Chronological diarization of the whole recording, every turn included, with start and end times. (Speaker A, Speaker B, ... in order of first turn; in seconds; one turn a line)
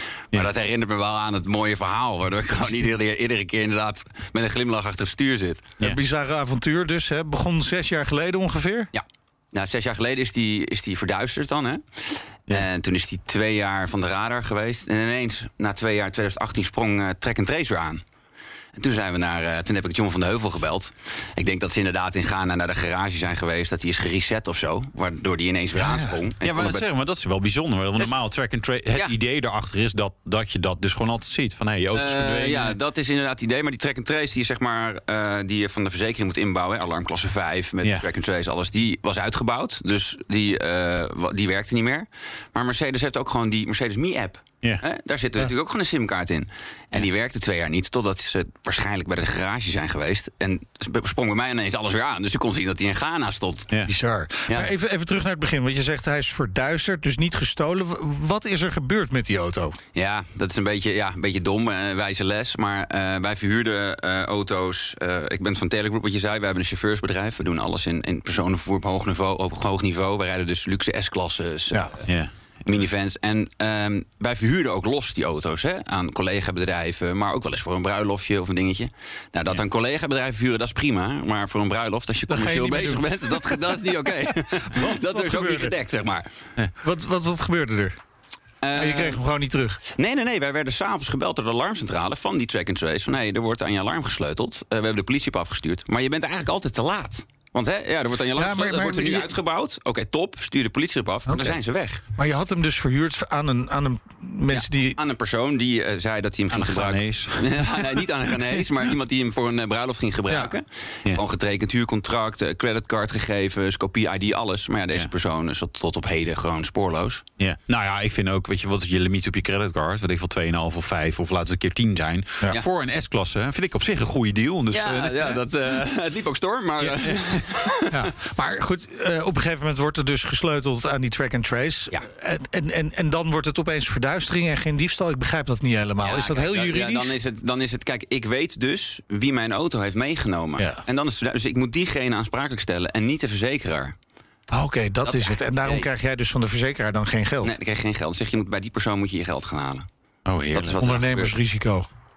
Speaker A: 0.3-5.7
Speaker B: 5.8-8.9
Speaker A: 8.9-18.0
Speaker A: 18.7-26.8
Speaker B: 25.8-26.1
Speaker C: 26.4-32.8
Speaker A: 31.9-53.7
Speaker B: 53.9-59.8
Speaker A: 59.9-72.1
Speaker C: 72.0-72.8
Speaker A: 72.7-86.3
Speaker B: 82.3-85.7
Speaker B: 86.8-88.0
Speaker A: 88.6-89.2
Speaker B: 88.8-89.8
Speaker A: 89.9-102.0
Speaker B: 98.3-99.3
Speaker B: 101.3-101.6
Speaker B: 102.2-105.0
Speaker A: 104.5-117.2
Speaker C: 106.5-107.8
Speaker C: 117.4-125.4
Speaker A: 124.7-127.9
Speaker C: 126.8-127.4
Speaker B: 127.9-137.1
Speaker A: 136.0-143.9
Speaker B: 140.6-140.8
Speaker B: 144.5-147.5
Speaker A: 145.0-145.9
Speaker A: 147.4-149.9
Speaker C: 150.2-151.0
Speaker A: 150.5-151.4
Speaker B: 150.8-151.9